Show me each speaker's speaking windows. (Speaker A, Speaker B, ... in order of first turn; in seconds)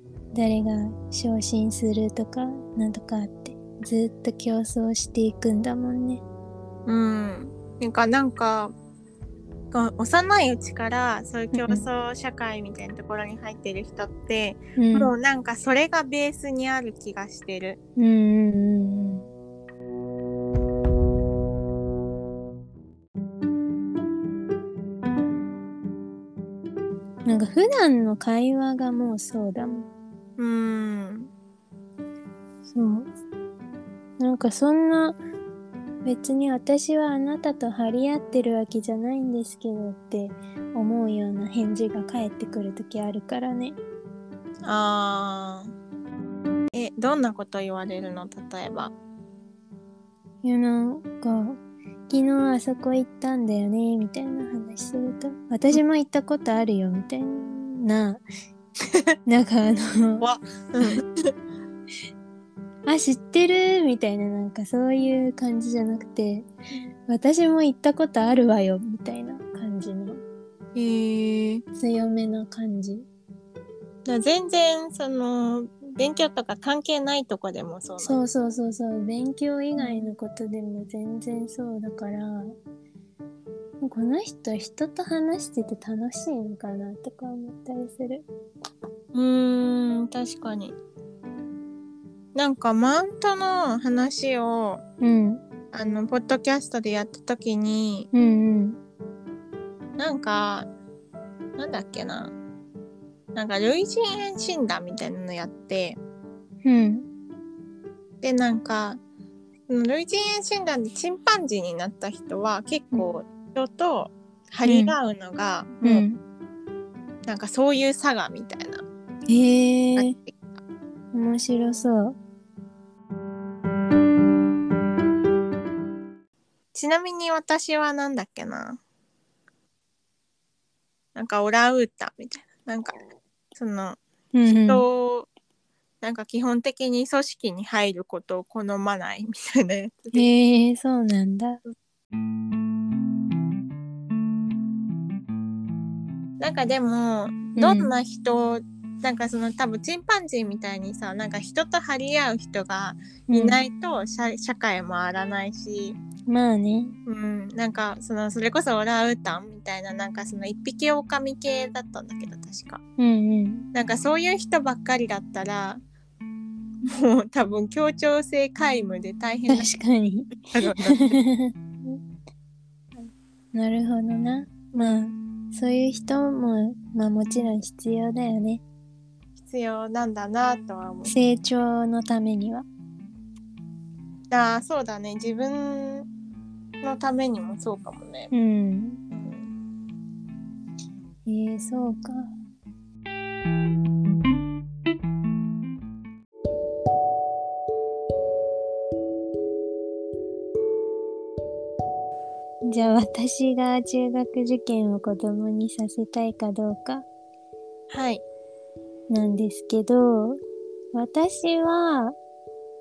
Speaker A: 0.3-6.2, 11.5-11.8, 14.8-15.1, 18.0-19.3, 27.3-29.9, 32.7-33.1, 34.2-35.2, 36.0-43.8, 50.4-51.6, 52.1-58.2, 59.3-60.3, 62.9-66.5, 67.1-70.2, 71.8-73.1, 78.0-82.6, 83.8-88.2, 95.0-95.4, 98.1-98.8, 106.7-107.1, 114.6-115.0, 115.8-116.2, 119.3-120.2, 121.1-122.2, 134.3-134.8, 140.1-141.6, 147.6-147.9, 153.3-153.6, 156.3-156.9, 163.0-163.7, 169.5-172.0, 173.5-178.6, 181.1-182.7, 188.3-189.0, 191.3-192.3, 202.7-207.1, 209.1-210.4, 210.9-212.2
Speaker B: 6.9-8.7, 9.7-17.8, 30.4-31.3, 44.6-45.7, 46.7-48.9, 60.2-61.1, 70.8-71.6, 74.1-78.2, 89.1-90.8, 92.3-94.8, 95.7-98.1, 100.0-100.7, 101.6-102.3, 103.3-106.0, 108.2-109.0, 109.7-116.0, 117.3-118.8, 120.0-120.3, 126.7-128.8, 131.2-133.0, 133.6-135.3, 136.0-140.3, 146.4-156.0, 157.1-162.8, 163.7-165.8, 166.8-169.7, 170.5-171.2, 174.7-175.0, 179.4-181.1, 184.3-186.1, 186.8-188.3, 189.1-189.5, 207.9-208.2